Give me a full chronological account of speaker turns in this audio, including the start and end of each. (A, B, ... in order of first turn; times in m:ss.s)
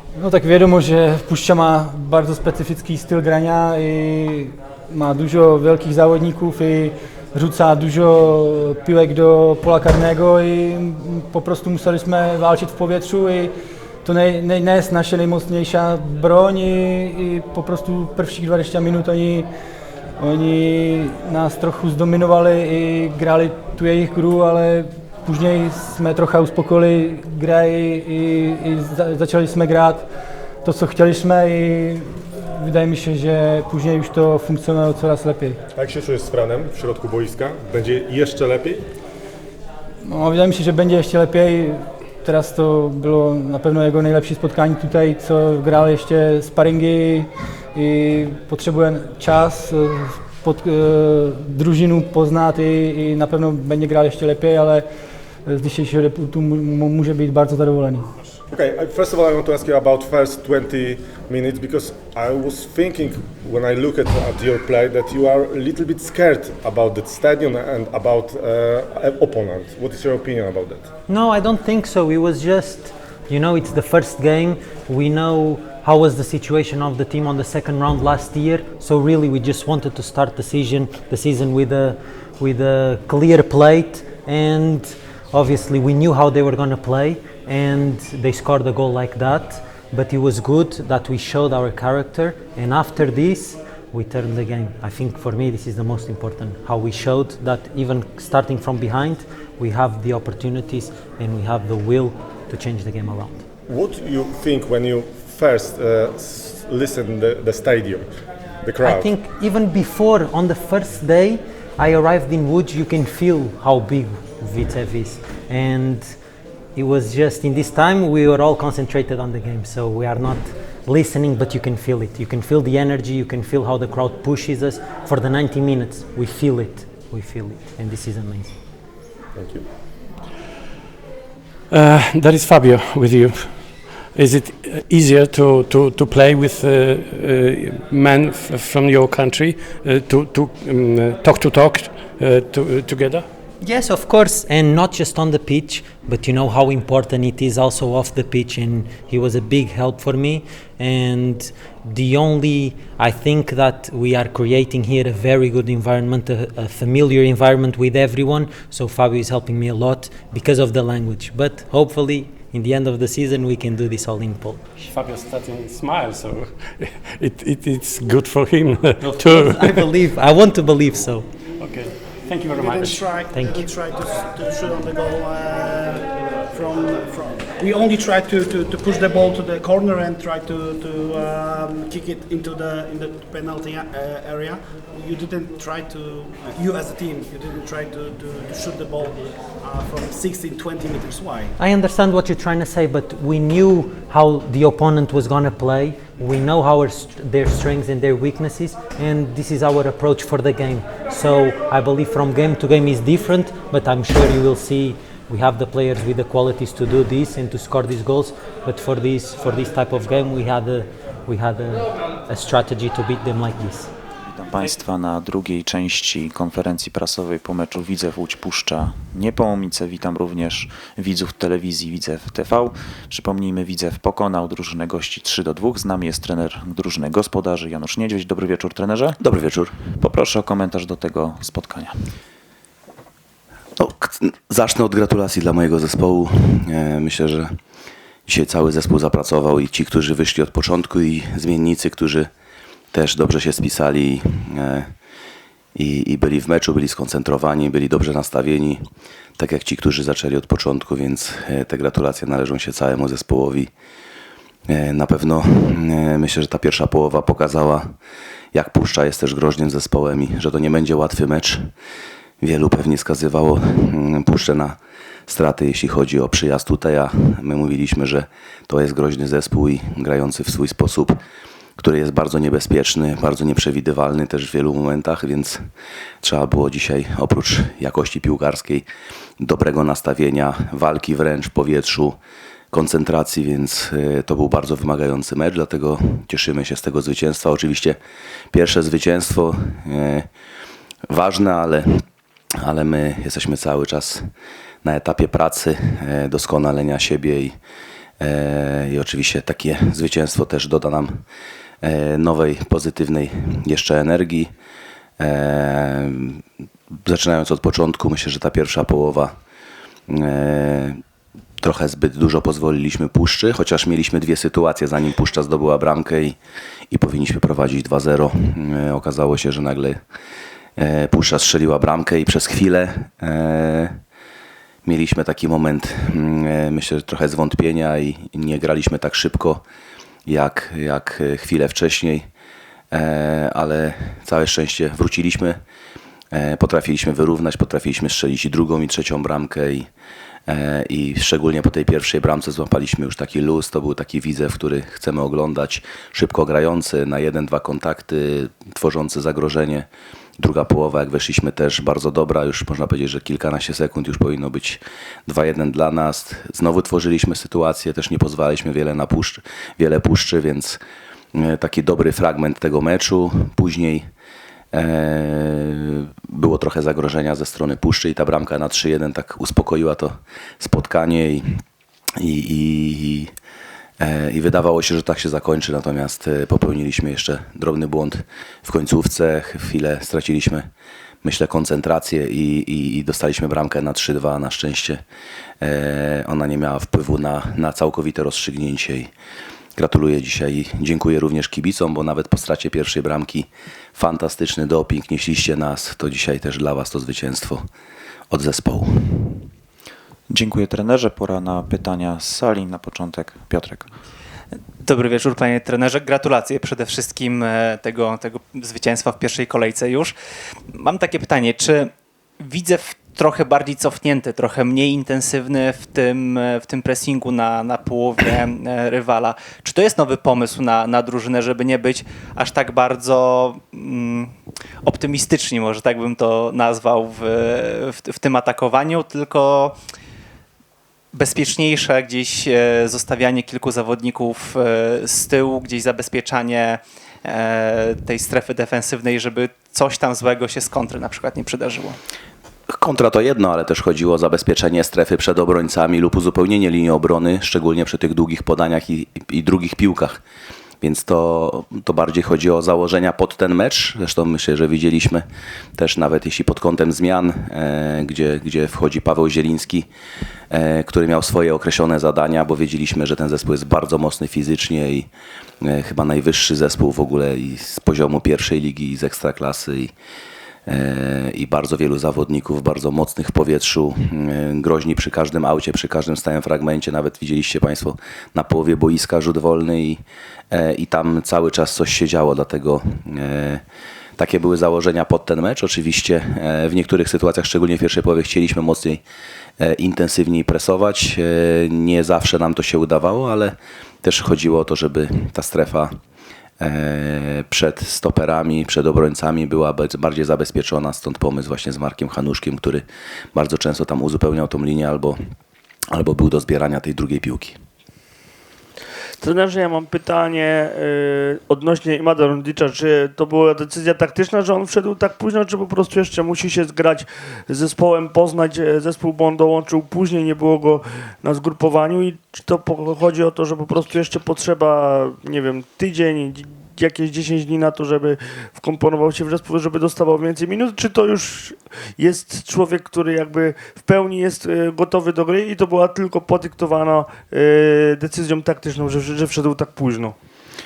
0:00.2-0:13.5 A
0:14.0-0:19.5 A
0:20.2-0:30.1 A
0:30.6-0:35.6 A
0:35.8-0:38.8 B
0:40.0-0:54.9 A
0:55.4-0:58.1 A
0:58.5-1:10.9 B
1:11.1-1:43.4 C
1:43.7-1:48.1 B
1:48.6-1:49.1 B
1:48.8-1:56.2 C
1:56.8-2:08.6 C
2:09.4-2:09.6 B
2:11.7-2:23.3 D
2:23.6-2:44.6 C
2:44.9-2:49.9 D
2:49.0-2:51.3 C
2:51.6-2:53.1 D
2:52.5-3:11.5 E
2:53.3-2:53.7 C
3:11.6-3:33.9 C
3:34.3-3:49.2 F
3:49.2-3:49.7 G
3:50.0-3:52.0 F
3:53.8-3:57.6 G
3:58.3-4:02.3 G
4:02.9-4:04.9 G
4:05.8-4:08.8 G
4:09.4-4:13.7 G
4:14.7-4:17.9 G
4:18.5-4:21.7 G
4:22.4-4:31.2 G
4:31.8-4:35.6 G
4:36.2-4:38.8 G
4:39.4-4:42.2 G
4:42.7-4:48.0 G
4:48.5-4:50.3 G
4:51.1-4:52.0 G
4:52.6-4:54.3 G
4:54.8-4:57.6 G
4:58.2-5:01.2 G
5:01.8-5:04.5 G
5:05.2-5:06.4 G
5:07.1-5:09.3 G
5:10.1-5:11.0 G
5:11.6-5:16.4 G
5:16.9-5:20.0 G
5:20.8-5:24.0 G
5:24.8-5:29.6 G
5:30.3-5:32.3 G
5:32.9-5:35.6 G
5:36.3-5:39.9 G
5:40.5-5:49.9 G
5:50.4-6:00.8 G
6:01.3-6:04.1 G
6:04.7-6:11.6 G
6:12.2-6:13.3 G
6:14.0-6:20.7 G
6:21.2-6:25.0 G
6:25.6-6:29.1 G
6:29.8-6:37.6 G
6:38.3-6:39.4 G
6:40.3-6:43.9 F
6:44.8-6:50.1 H
6:50.7-7:09.8 H
7:11.1-7:22.0 H
7:22.7-7:30.2 G
7:30.8-7:35.2 G
7:35.8-7:39.9 G
7:40.5-7:45.1 G
7:45.6-7:49.9 G
7:50.7-8:03.6 G
8:04.2-8:09.0 G
8:09.6-8:16.0 G
8:16.6-8:25.2 G
8:25.9-8:27.6 G
8:29.2-9:00.2 I